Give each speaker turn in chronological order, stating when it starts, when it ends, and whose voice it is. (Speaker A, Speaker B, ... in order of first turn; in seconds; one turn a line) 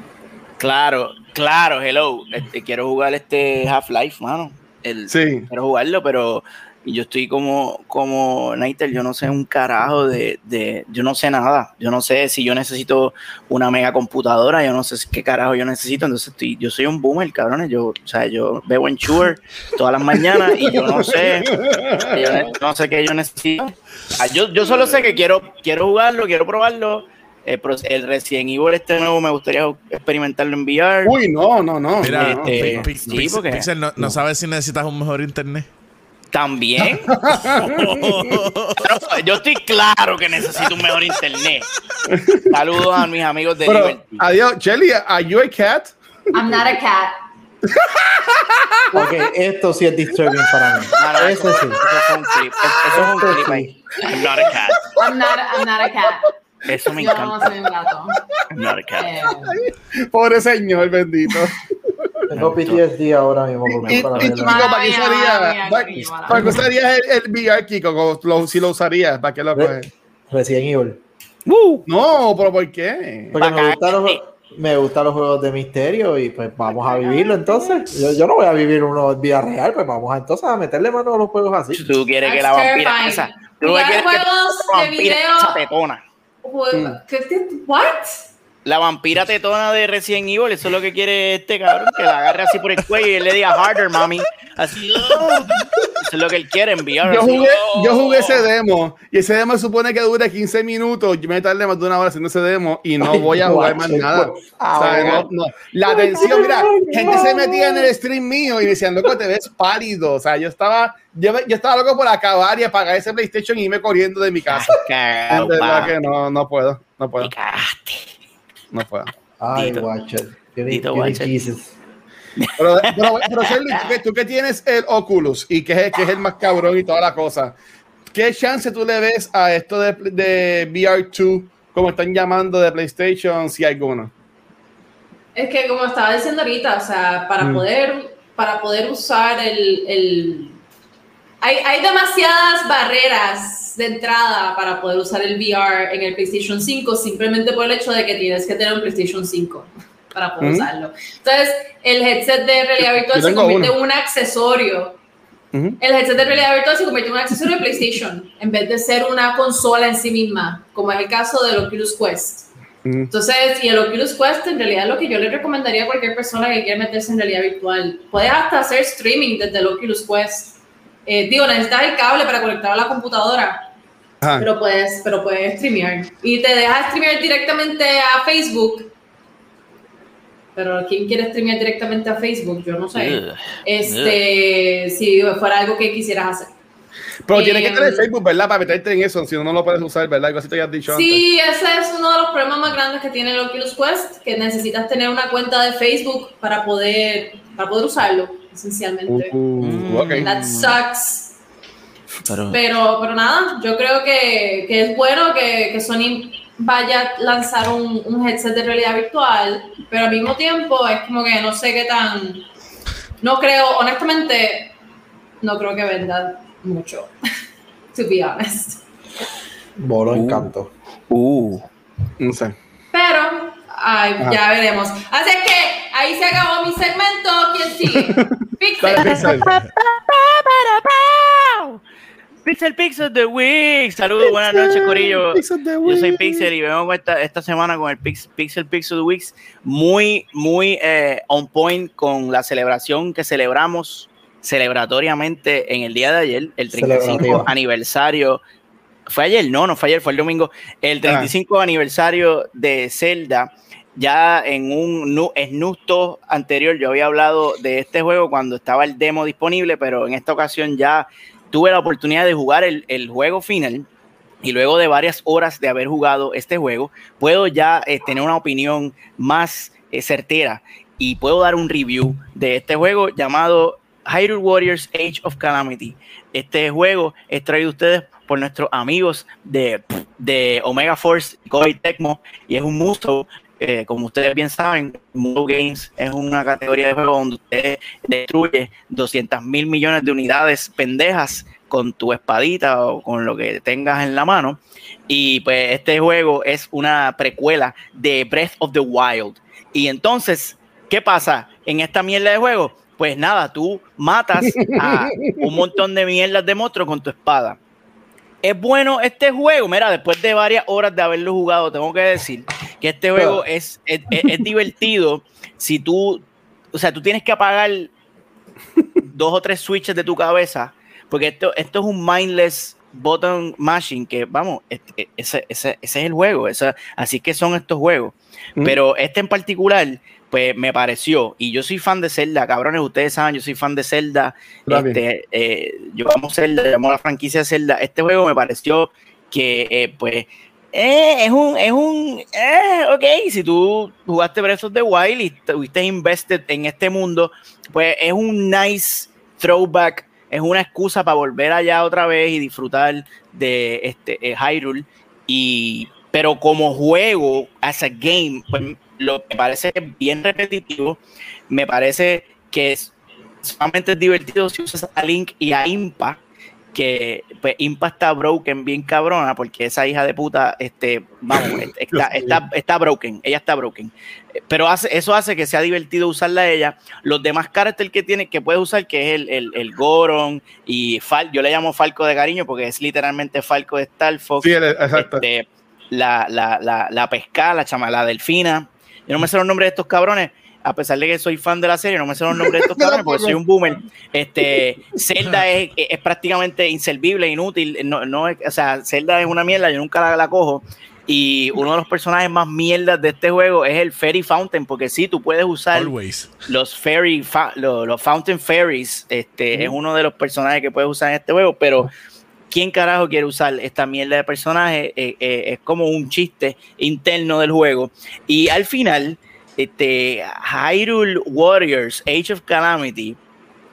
Speaker A: 0.6-21.5
Speaker B: 5.1-5.5
Speaker B: 20.3-22.5
Speaker A: 22.0-31.2
Speaker B: 31.0-32.9
Speaker C: 32.0-35.7
Speaker A: 32.0-33.7
Speaker A: 36.3-37.2
Speaker B: 37.0-38.4
Speaker C: 37.6-39.2
Speaker A: 38.8-41.7
Speaker B: 42.1-42.6
Speaker A: 42.5-44.3
Speaker B: 43.6-46.0
Speaker D: 46.3-47.1
Speaker B: 47.6-49.1
Speaker E: 48.9-51.8
Speaker A: 51.0-54.9
Speaker B: 52.7-54.6
Speaker E: 52.9-53.7
Speaker D: 55.0-56.3
Speaker A: 56.7-57.5
Speaker D: 57.0-58.2
Speaker A: 58.5-59.1
Speaker D: 59.0-59.6
Speaker B: 59.4-62.1
Speaker E: 62.3-64.7
Speaker A: 62.3-62.8
Speaker A: 63.8-64.5
Speaker B: 63.9-69.9
Speaker D: 64.4-66.5
Speaker E: 66.3-66.6
Speaker E: 69.5-71.0
Speaker A: 71.5-71.8
Speaker B: 71.9-73.4
Speaker E: 73.3-81.8
Speaker A: 73.4-74.2
Speaker D: 76.7-77.9
Speaker A: 81.7-86.0
Speaker D: 82.2-85.6
Speaker D: 86.4-88.3
Speaker A: 88.7-98.5
Speaker B: 95.2-95.7
Speaker B: 97.0-117.3
Speaker E: 103.0-105.3
Speaker A: 104.8-105.2
Speaker E: 105.9-107.9
Speaker A: 114.5-116.0
Speaker A: 117.2-118.1
Speaker B: 118.7-119.1
Speaker E: 119.4-121.7
Speaker A: 119.5-119.9
Speaker A: 120.7-121.3
Speaker A: 122.4-124.0
Speaker B: 122.6-127.6
Speaker B: 128.1-134.1
Speaker D: 135.3-140.6
Speaker D: 141.4-155.0
Speaker B: 150.4-150.7
Speaker B: 153.1-153.7
Speaker B: 155.5-155.8
Speaker D: 155.8-162.5
Speaker B: 162.8-163.1
Speaker D: 163.1-173.7
Speaker B: 174.2-174.5
Speaker D: 174.3-178.9
Speaker D: 180.6-186.5
Speaker A: 182.9-184.2
Speaker B: 187.3-191.2
Speaker D: 187.3-188.1
Speaker D: 190.9-199.3
Speaker B: 199.1-200.3
Speaker A: 199.6-200.8
Speaker D: 200.2-201.4
Speaker A: 202.2-202.6
Speaker D: 202.5-212.5
Speaker D: 213.2-214.7
Speaker D: 215.4-217.1
Speaker D: 217.9-218.8
Speaker E: 219.8-220.7
Speaker A: 220.1-220.5
Speaker A: 221.1-221.7
Speaker B: 222.2-222.6
Speaker D: 222.9-229.4
Speaker B: 228.2-229.5
Speaker A: 229.1-231.8
Speaker C: 229.4-229.7
Speaker A: 232.4-248.4
Speaker B: 234.3-236.5
Speaker E: 246.7-247.5
Speaker A: 249.1-263.9
Speaker B: 251.1-251.3
Speaker A: 264.4-307.6
Speaker B: 304.6-305.5
Speaker A: 308.4-317.9
Speaker A: 319.1-362.9
Speaker B: 334.7-335.0
Speaker A: 363.4-366.2
Speaker A: 366.7-373.9
Speaker B: 371.3-372.4
Speaker A: 374.5-405.9
Speaker B: 384.4-385.2
Speaker B: 392.3-393.8
Speaker C: 405.7-406.3
Speaker A: 406.5-411.9
Speaker A: 412.5-423.2